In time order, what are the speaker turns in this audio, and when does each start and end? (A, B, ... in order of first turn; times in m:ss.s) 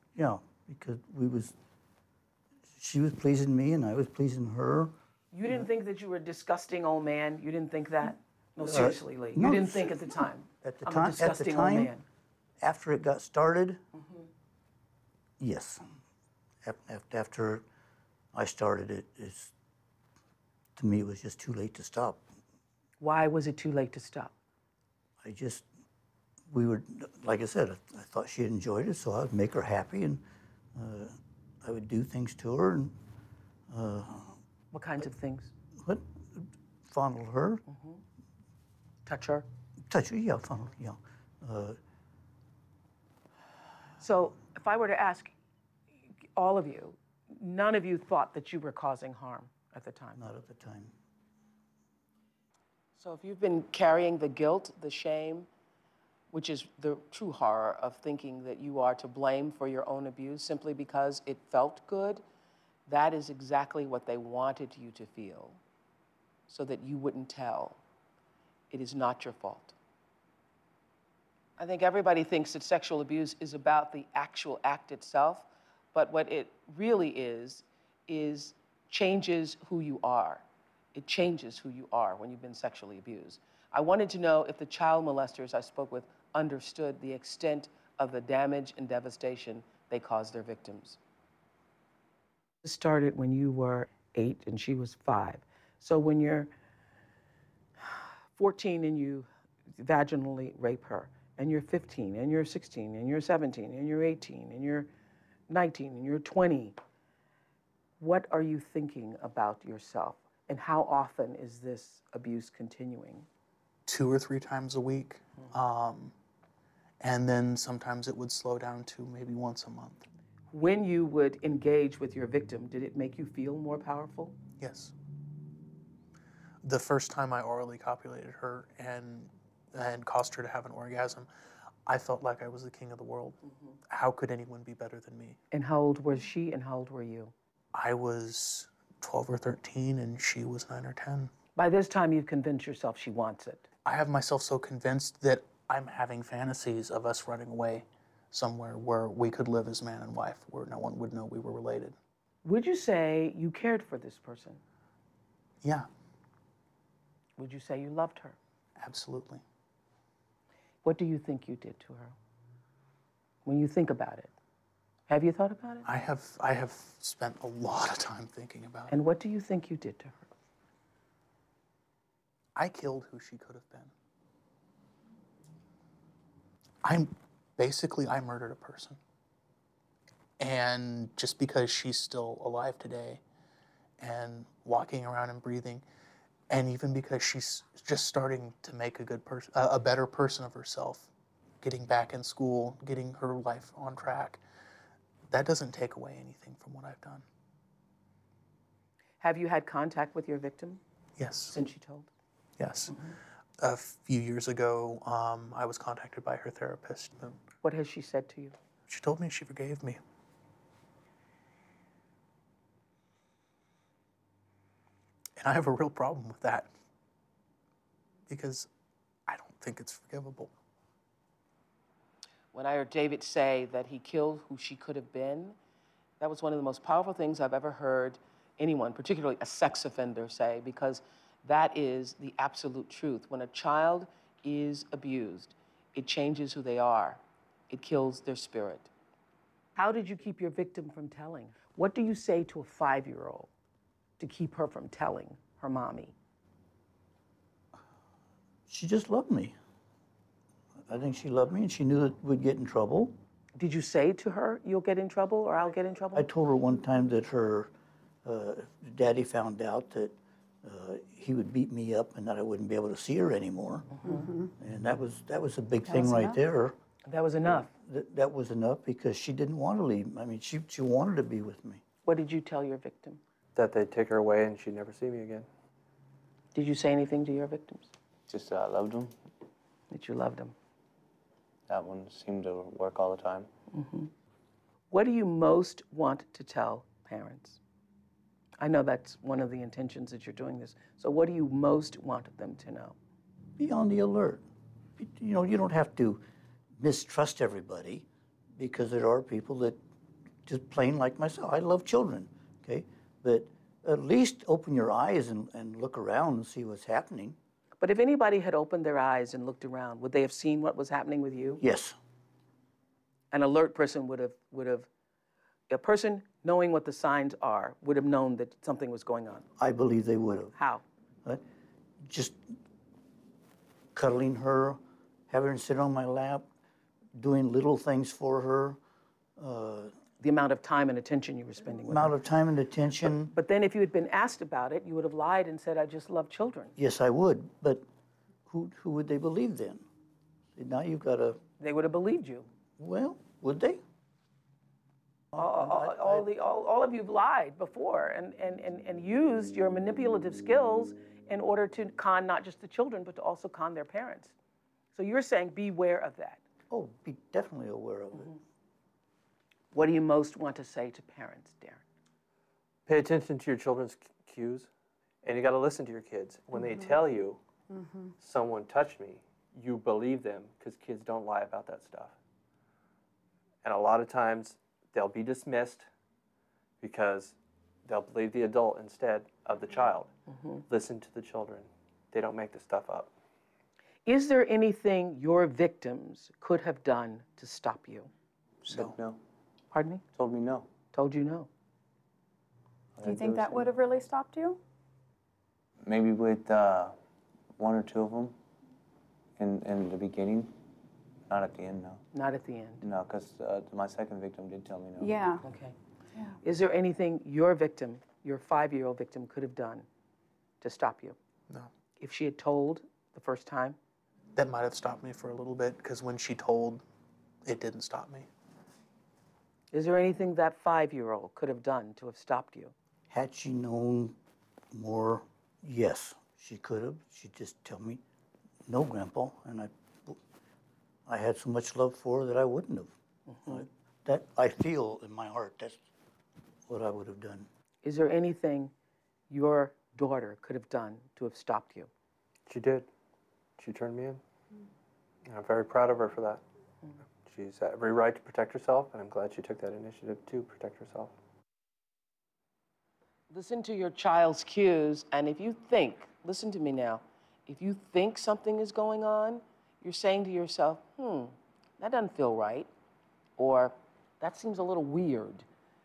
0:00.2-0:01.6 A
0:02.7-0:05.0 A
0:05.3-0:12.0 B
0:08.6-0:11.9 A
0:12.6-0:13.8 A
0:14.0-0:14.2 B
0:15.4-0:16.0 A
0:16.6-0:17.6 A
0:18.3-0:19.5 A
0:20.8-0:22.2 A
0:23.0-0:24.3 B
0:25.2-0:25.6 A
0:26.5-0:30.2 A
0:30.8-0:33.0 A
0:33.7-0:34.4 A
0:34.7-0:35.5 B
0:35.8-0:37.6 A
0:37.7-0:38.0 B
0:39.1-0:39.5 B
0:39.9-0:41.8 A
0:44.0-0:45.3 B
0:46.4-0:50.2 B
0:50.2-0:50.9 A
0:53.0-0:55.5 B
0:56.3-1:02.2 B
1:02.9-1:05.6 B
1:06.5-1:07.8 B
1:08.7-1:09.8 B
1:11.6-1:31.0 B
1:32.6-1:36.5 B
1:37.8-1:44.9 B
1:45.5-1:46.8 B
1:48.0-1:53.3 B
1:53.9-1:56.1 C
1:57.0-2:00.0 C
2:00.5-2:04.4 B
2:04.6-2:04.9 C
2:06.6-2:11.3 C
2:11.9-2:15.4 C
2:15.5-2:17.3 B
2:17.7-2:21.3 C
2:21.6-2:23.6 B
2:23.8-2:32.0 C
2:32.4-2:34.6 B
2:35.6-2:35.9 C
2:37.4-2:38.4 B
2:38.8-2:39.4 C
2:40.8-2:42.2 B
2:43.4-2:44.3 B
2:45.1-2:45.9 B
2:45.9-2:48.9 C
2:48.9-2:50.3 B
2:52.6-2:53.9 C
2:56.8-2:59.0 C
3:00.4-3:03.2 C
3:04.0-3:05.8 C
3:06.5-3:11.1 C
3:11.6-3:14.4 C
3:15.3-3:17.2 C
3:19.2-3:20.8 B
3:21.2-3:21.6 C
3:21.5-3:22.1 B
3:22.6-3:23.0 C
3:23.6-3:27.4 C
3:27.6-3:28.6 B
3:28.9-3:30.0 C
3:35.4-3:36.7 C
3:38.3-3:38.7 C
3:39.3-3:40.5 C
3:42.5-3:45.6 B
3:46.2-3:58.9 B
3:59.8-4:03.5 B
4:04.2-4:06.2 B
4:08.7-4:09.6 A
4:10.9-4:13.2 A
4:13.6-4:16.3 B
4:16.1-4:17.7 A
4:18.2-4:23.9 A
4:24.0-4:24.3 B
4:24.1-4:24.5 D
4:24.6-4:26.8 A
4:27.1-4:27.7 B
4:27.7-4:31.8 A
4:32.0-4:33.2 B
4:33.6-4:35.5 E
4:36.5-4:37.9 B
4:38.3-4:39.2 F
4:39.9-4:40.5 B
4:41.7-4:43.5 F
4:43.7-4:44.1 B
4:44.9-4:47.6 B
4:48.6-4:53.0 B
4:53.6-4:54.4 A
4:55.0-4:56.2 A
4:56.8-4:59.8 A
5:00.4-5:07.4 A
5:07.8-5:11.6 B
5:11.6-5:12.0 A
5:13.3-5:14.9 B
5:15.7-5:19.5 B
5:19.6-5:20.5 A
5:20.6-5:20.8 B
5:22.0-5:22.4 A
5:24.0-5:26.5 A
5:27.2-5:28.8 A
5:29.4-5:29.9 A
5:30.2-5:32.2 B
5:31.8-5:33.3 A
5:33.3-5:36.7 B
5:36.8-5:37.9 A
5:38.5-5:39.9 A
5:40.6-5:41.4 A
5:41.6-5:42.5 B
5:42.8-5:43.8 A
5:45.3-5:46.3 A
5:45.4-5:54.4 B
5:54.9-5:56.4 B
5:56.7-5:58.3 A
5:59.7-6:01.8 B
6:02.9-6:04.7 E
6:05.2-6:07.4 E
6:07.7-6:08.1 D
6:08.2-6:12.2 E
6:13.6-6:15.9 E
6:16.8-6:20.1 E
6:20.3-6:20.6 B
6:20.7-6:23.1 E
6:24.1-6:28.1 B
6:28.6-6:29.2 F
6:29.7-6:30.0 B
6:30.1-6:30.7 F
6:30.9-6:31.5 B
6:33.0-6:33.7 F
6:33.0-6:34.6 D
6:35.8-6:37.0 F
6:37.6-6:38.4 F
6:39.4-6:40.5 F
6:41.3-6:42.0 F
6:42.1-6:42.8 B
6:42.8-6:45.2 F
6:45.0-6:45.4 D
6:45.4-6:45.8 B
6:46.4-6:49.9 B
6:50.6-6:51.2 B
6:52.0-6:53.8 B
6:54.4-6:56.8 C
6:57.4-6:58.3 C
6:59.7-7:02.7 B
7:03.1-7:04.2 A
7:04.7-7:08.0 A
7:08.7-7:10.2 A
7:11.1-7:12.9 A
7:13.3-7:13.6 B
7:13.5-7:15.8 A
7:16.7-7:17.5 A
7:17.8-7:18.7 B
7:19.3-7:21.9 B
7:22.5-7:22.9 E
7:23.6-7:24.2 E
7:25.3-7:26.4 E
7:27.2-7:31.1 E
7:33.3-7:42.7 B
7:43.4-7:45.5 B